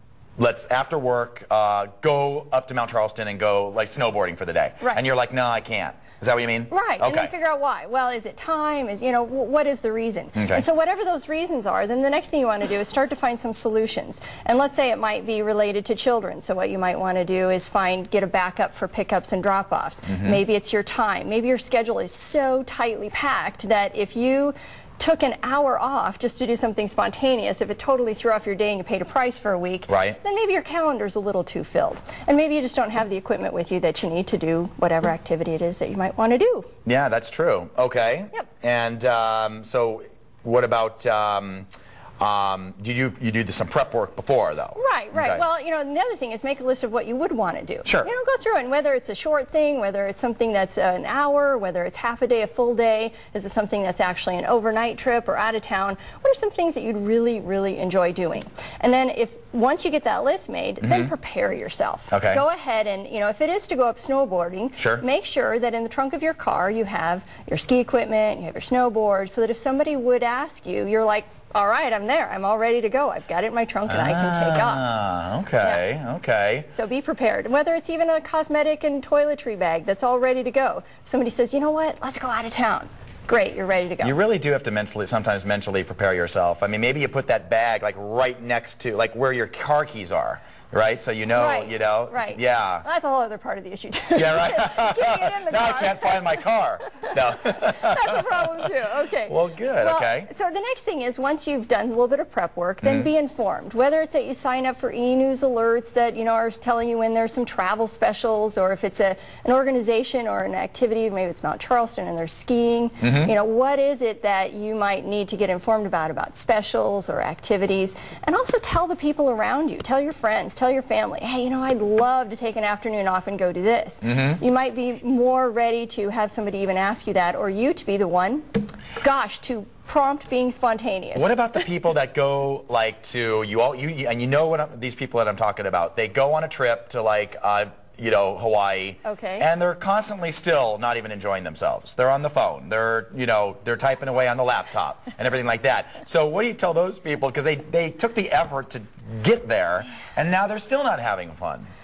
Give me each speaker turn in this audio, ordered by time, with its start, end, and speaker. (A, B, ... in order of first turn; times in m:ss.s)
0:00.4-0:07.3 A
0:06.7-0:36.7 B
0:10.3-0:10.6 A
0:20.1-0:20.4 A
0:29.9-0:30.2 A
0:36.8-0:41.7 A
0:42.2-0:45.4 A
0:44.8-1:14.9 B
1:00.8-1:01.1 A
1:02.1-1:02.4 A
1:04.8-1:05.0 A
1:13.9-1:16.7 A
1:16.7-1:24.2 B
1:24.0-1:32.8 A
1:31.3-2:11.3 B
1:34.1-1:38.2 A
1:39.3-1:40.3 A
1:53.0-1:53.3 A
2:04.0-2:04.4 A
2:11.1-2:31.7 A
2:19.0-2:19.5 B